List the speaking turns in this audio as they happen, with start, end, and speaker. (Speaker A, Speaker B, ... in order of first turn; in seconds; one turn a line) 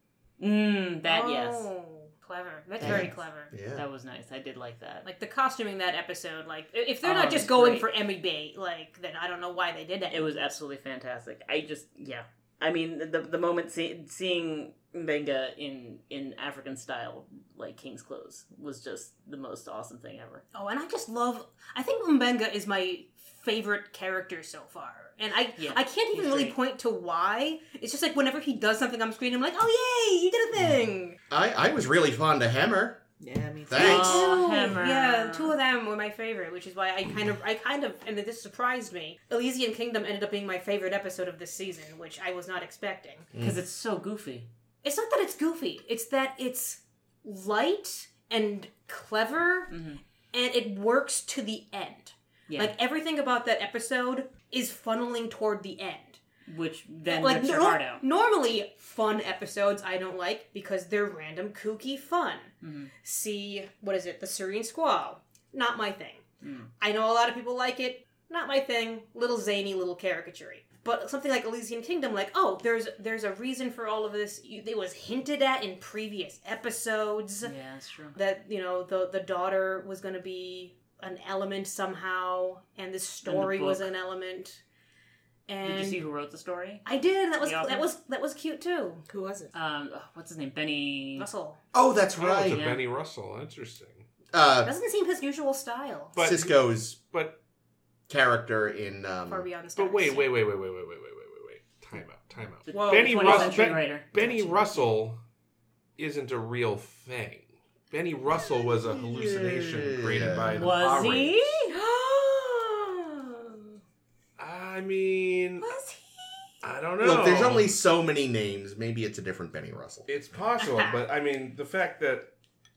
Speaker A: 0.4-1.7
Speaker B: 1.1-3.5
Speaker C: 2.8-3.8
Speaker A: 3.7-5.0
Speaker B: 5.0-10.4
Speaker A: 7.0-7.9
Speaker A: 10.1-20.4
Speaker B: 20.5-31.2
Speaker A: 25.6-26.6
Speaker C: 30.6-33.0
Speaker D: 33.2-34.4
Speaker C: 33.7-34.3
Speaker A: 33.7-35.5
Speaker B: 33.8-43.3
Speaker C: 43.3-43.6
Speaker A: 43.4-44.5
Speaker B: 44.8-49.7
Speaker A: 49.7-50.0
Speaker B: 50.3-56.2
Speaker A: 52.5-52.7
Speaker A: 56.5-58.0
Speaker B: 57.1-66.2
Speaker A: 62.6-62.9
Speaker A: 66.4-66.7
Speaker B: 66.8-77.5
Speaker A: 77.4-78.2
Speaker B: 78.2-84.6
Speaker A: 83.2-83.9
Speaker B: 85.5-86.0
Speaker A: 85.6-86.8
Speaker B: 86.8-89.0
Speaker A: 87.4-87.9
Speaker D: 89.1-89.5
Speaker A: 89.5-91.3
Speaker B: 91.2-91.6
Speaker C: 91.7-92.6
Speaker E: 92.2-94.1
Speaker A: 92.5-92.9
Speaker C: 94.3-94.7
Speaker B: 94.6-96.2
Speaker E: 96.1-97.4
Speaker C: 96.2-97.0
Speaker C: 98.1-99.5
Speaker B: 99.3-100.3
Speaker E: 99.8-105.2
Speaker A: 102.7-104.6
Speaker D: 102.7-103.7
Speaker E: 106.0-111.6
Speaker C: 108.7-110.7
Speaker A: 110.5-111.7
Speaker B: 111.7-113.8
Speaker E: 114.4-115.7
Speaker B: 115.6-116.5
Speaker E: 116.6-117.7
Speaker C: 117.0-120.1
Speaker E: 120.1-122.3
Speaker B: 120.6-121.0